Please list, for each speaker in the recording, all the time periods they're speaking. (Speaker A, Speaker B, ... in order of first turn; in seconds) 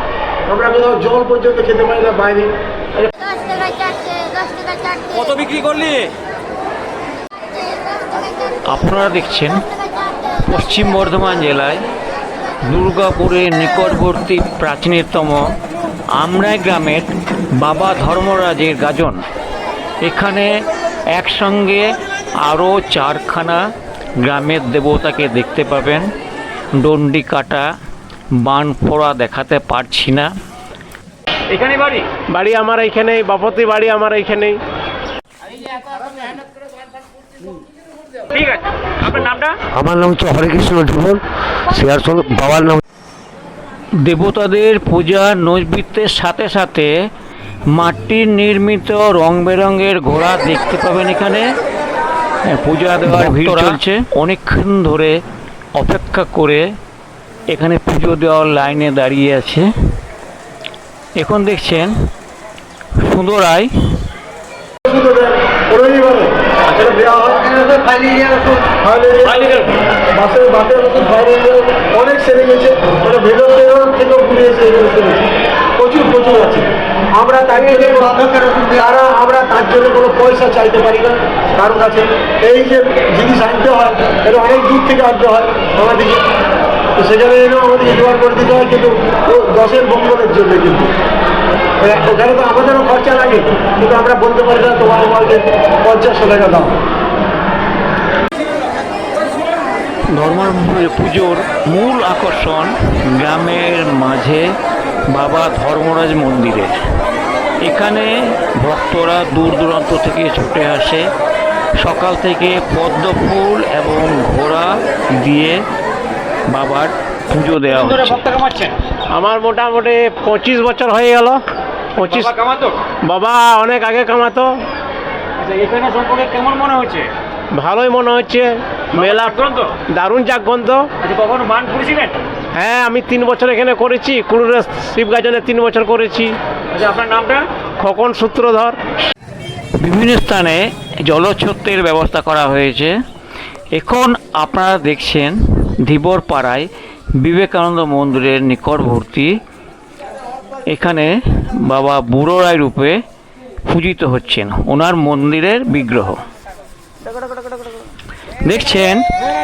Speaker A: 0.5-2.5, 64.8-67.7, 68.8-69.6, 70.1-75.2, 75.8-86.2, 87.0-90.9, 91.8-96.8
Speaker B: 5.4-5.9, 31.6-32.0, 39.1-39.5, 118.0-118.7, 125.5-127.1, 129.1-129.7, 131.0-132.1, 136.7-137.5
Speaker C: 8.7-9.7, 10.4-11.8, 12.7-15.5, 16.2-19.2, 20.0-23.6, 24.2-26.1, 26.8-27.7, 28.4-30.3, 44.0-46.9, 47.7-51.5, 52.5-55.2, 55.8-56.7, 57.5-59.7, 61.1-61.9, 63.0-64.0, 100.1-104.5, 105.1-106.8, 107.6-111.1, 111.8-115.6, 116.5-118.5, 139.8-143.0, 143.7-149.4, 150.7-153.0, 153.7-156.2, 158.4-159.1
Speaker D: 32.3-34.6, 119.1-121.4, 121.9-122.4, 122.9-124.6, 127.5-130.9, 132.5-136.4, 137.8-138.8
Speaker E: 39.7-42.8